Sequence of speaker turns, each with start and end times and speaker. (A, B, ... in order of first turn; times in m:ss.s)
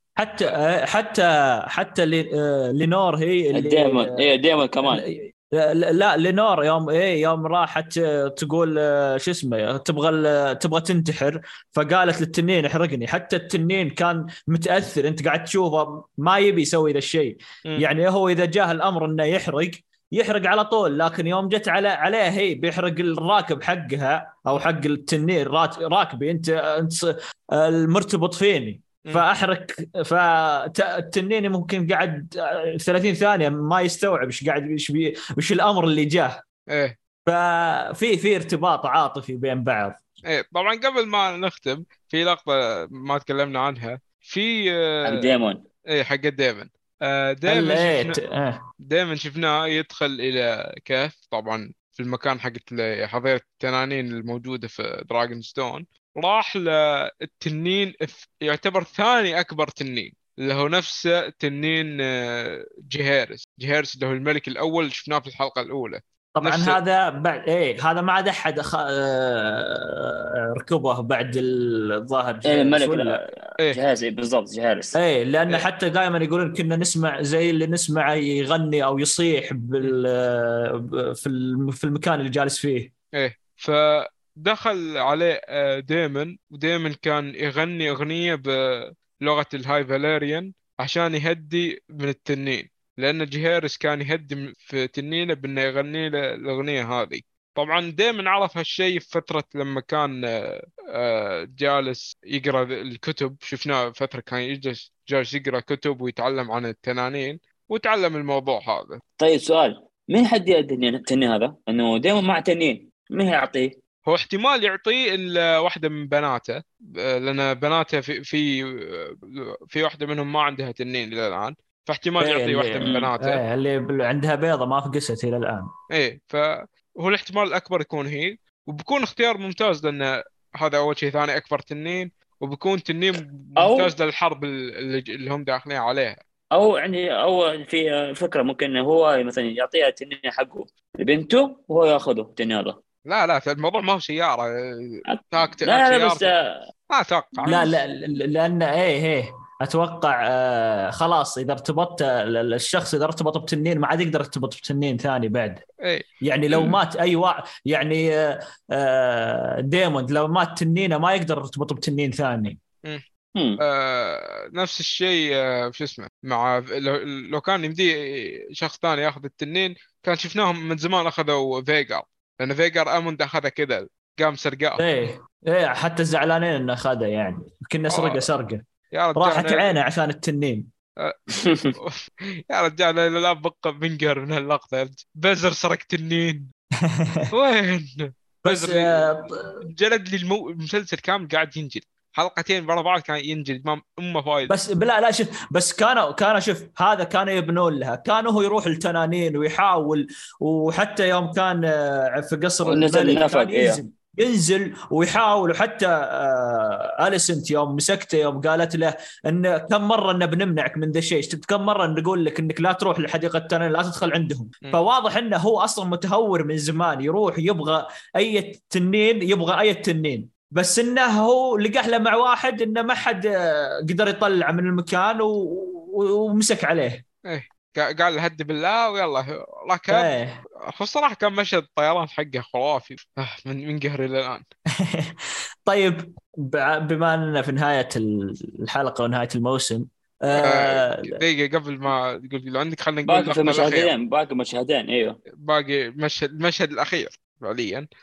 0:00.2-0:04.3 A
0:03.5-0:05.0 B
0:04.9-0:36.4 A
0:36.7-0:37.0 C
0:37.3-0:40.0 A
0:40.3-0:45.1 C
0:45.0-0:45.6 B
0:45.9-0:48.2 C
0:47.5-0:48.6 A
0:48.9-1:06.8 C
1:06.4-1:13.2 A
1:12.4-1:15.0 B
1:15.0-1:22.9 A
1:23.2-1:49.0 C
1:49.2-1:53.8 B
1:54.1-2:03.4 C
2:02.2-2:05.7 A
2:02.8-2:03.1 B
2:05.9-2:16.2 C
2:13.6-2:13.9 B
2:16.5-2:22.8 B
2:23.1-2:26.3 C
2:25.1-2:26.6 B
2:26.9-2:27.7 C
2:27.4-2:27.7 B
2:27.5-2:35.6 A
2:35.8-2:36.8 C
2:36.2-2:42.6 A
2:43.4-2:43.6 B
2:43.6-2:54.8 C
2:54.8-2:58.6 A
2:57.9-2:58.2 C
2:58.9-2:59.7 C
2:59.2-3:00.7 A
3:01.0-3:02.0 C
3:01.4-3:01.7 B
3:02.5-3:06.5 C
3:06.8-3:07.3 A
3:07.3-3:09.1 C
3:08.4-3:09.6 A
3:09.6-3:14.6 C
3:14.5-3:47.0 A
3:22.7-3:23.8 B
3:47.3-3:50.1 C
3:49.9-3:50.4 A
3:50.7-3:54.4 C
3:54.8-4:01.2 A
4:00.4-4:03.9 C
4:03.1-4:05.2 B
4:05.4-4:07.9 C